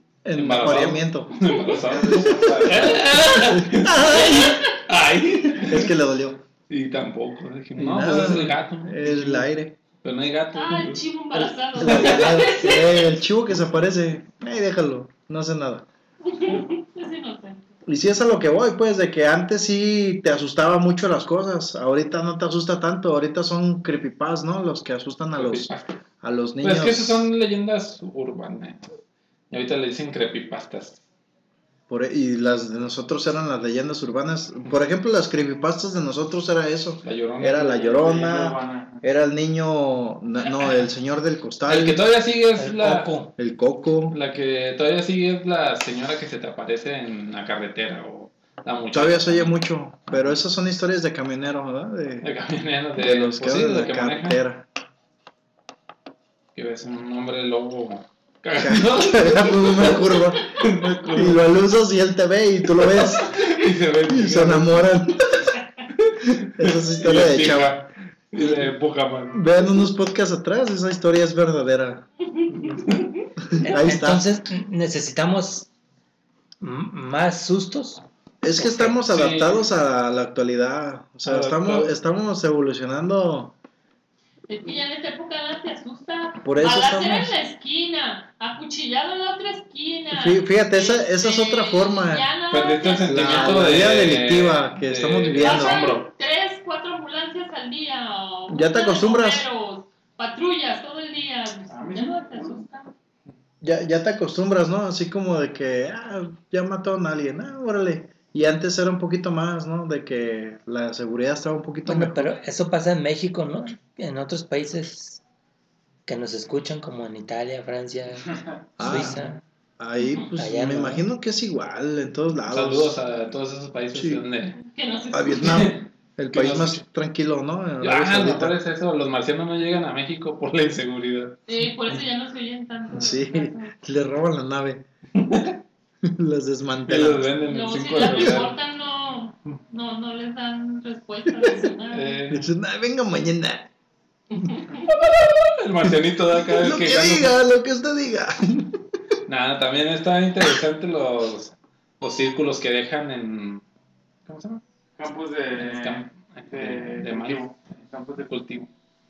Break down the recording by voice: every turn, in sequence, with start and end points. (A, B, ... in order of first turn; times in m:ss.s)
0:00.2-0:01.3 A
0:00.3-0:05.9 B
0:01.5-0:01.8 C
0:01.9-0:04.6 A
0:01.9-0:02.7 D
0:04.3-0:04.6 C
0:05.5-0:06.4 A
0:06.7-0:09.5 B
0:07.8-0:09.8 A
0:10.0-0:11.0 B
0:10.5-0:13.0 C
0:11.3-0:15.8 A
0:11.8-0:12.3 B
0:16.2-0:17.7 C
0:17.8-0:25.7 A
0:25.4-0:26.0 B
0:26.2-0:27.3 A
0:26.6-0:28.9 B
0:29.5-0:31.0 B
0:31.9-0:42.0 A
0:37.0-0:37.9 B
0:37.8-0:39.0 D
0:41.7-0:43.1 B
0:42.6-0:43.3 E
0:43.4-0:44.2 A
0:44.1-0:49.5 B
0:48.9-0:52.3 A
0:52.2-0:54.4 B
0:53.0-0:54.6 A
0:56.5-1:01.4 B
0:58.6-1:03.4 A
1:02.8-1:04.9 B
1:04.1-1:05.5 A
1:06.0-1:09.4 B
1:06.6-1:07.8 A
1:09.3-1:12.0 A
1:12.6-1:13.0 B
1:12.6-1:13.0 C
1:13.5-1:14.2 A
1:13.6-1:15.7 E
1:16.6-1:18.0 E
1:18.4-1:23.5 A
1:18.6-1:19.0 E
1:19.0-1:19.6 B
1:21.2-1:21.9 B
1:24.5-1:33.8 C
1:26.4-1:27.3 A
1:30.1-1:32.3 A
1:32.5-1:36.0 B
1:33.1-1:36.0 A
1:35.4-1:42.9 C
1:38.5-1:39.4 A
1:41.7-1:42.6 D
1:43.6-1:52.3 A
1:51.8-1:55.2 E
1:56.0-1:59.4 E
1:58.3-1:58.6 D
1:58.8-1:59.2 A
1:59.8-2:03.0 A
2:00.4-2:01.0 E
2:02.5-2:04.6 B
2:03.9-2:04.2 A
2:04.6-2:05.7 C
2:05.1-2:08.6 A
2:05.4-2:05.8 B
2:06.3-2:06.8 B
2:07.8-2:11.4 B
2:11.5-2:13.7 C
2:12.9-2:14.8 A
2:15.1-2:15.6 B
2:16.0-2:17.3 A
2:16.9-2:18.5 B
2:17.5-2:22.2 C
2:17.9-2:18.4 A
2:21.9-2:22.5 B
2:22.3-2:23.7 A
2:24.3-2:24.9 C
2:25.6-2:27.3 B
2:26.4-2:28.8 A
2:29.3-2:33.6 B
2:34.2-2:34.6 B
2:35.0-2:38.3 D
2:35.6-2:37.4 B
2:38.2-2:38.7 B